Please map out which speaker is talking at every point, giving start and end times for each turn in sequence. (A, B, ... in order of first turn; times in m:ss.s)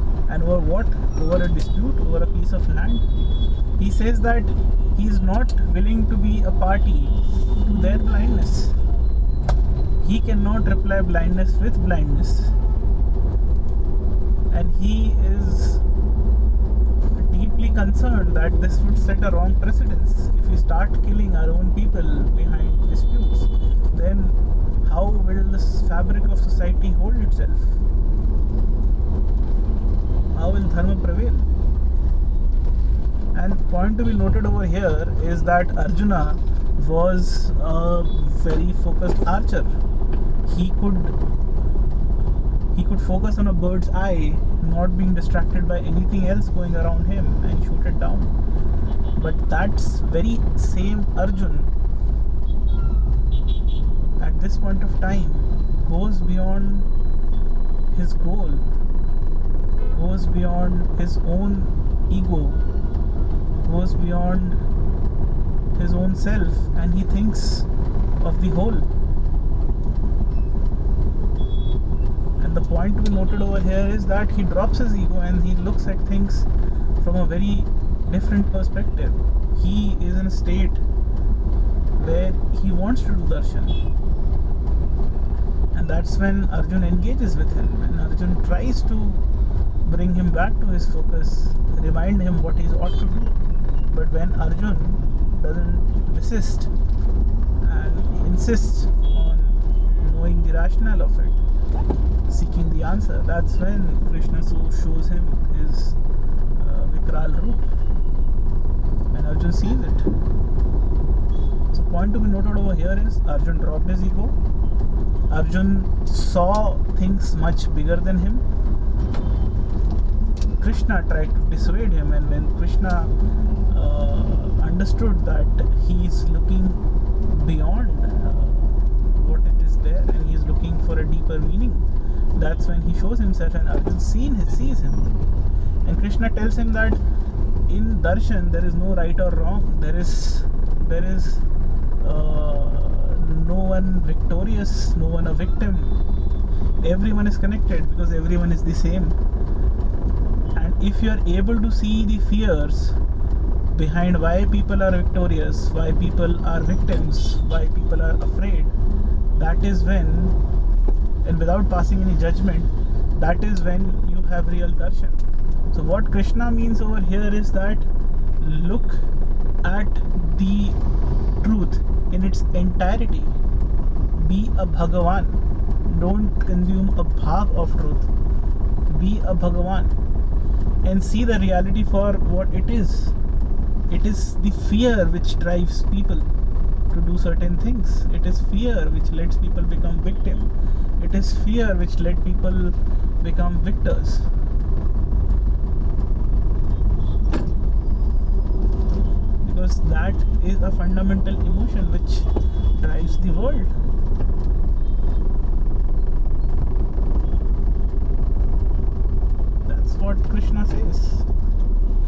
0:00.3-0:03.0 A
0:03.8-0:08.7 A
0:10.0-0:12.5 A
0:14.5-0:15.8 A
0:17.1-0:27.8 A
0:30.3-0:31.5 A
0:33.3-0:39.7 A
0:40.4-0:41.1 A
0:42.7-0:48.3 A
0:49.1-0:51.7 A
0:54.2-0:56.9 A
0:57.9-0:58.6 A
0:59.9-1:02.6 A
1:03.6-1:04.6 A
1:05.7-1:07.7 A
1:08.2-1:08.8 A
1:12.4-1:16.5 A
1:17.0-1:20.8 A
1:22.0-1:23.8 A
1:25.7-1:29.2 A
1:29.8-1:33.3 A
1:33.9-1:36.7 A
1:37.6-1:41.4 A
1:42.3-1:46.0 A
1:46.6-1:47.7 A
1:49.1-1:50.1 A
1:51.7-1:54.3 A
1:55.3-1:58.4 A
2:00.6-2:03.1 A
2:03.7-2:15.1 A
2:15.8-2:17.0 A
2:17.7-2:21.4 A
2:22.0-2:26.0 A
2:26.8-2:29.2 A
2:30.5-2:33.0 A
2:33.7-2:38.7 A
2:39.3-2:40.4 A
2:41.2-2:45.2 A
2:45.7-2:47.9 A
2:48.4-2:49.0 A
2:49.6-2:50.8 A
2:51.4-2:53.4 A
2:54.2-2:58.1 A
2:58.9-2:59.9 A
3:00.8-3:03.1 A
3:03.9-3:06.2 A
3:06.9-3:14.3 A
3:19.4-3:23.7 A
3:29.6-3:31.2 A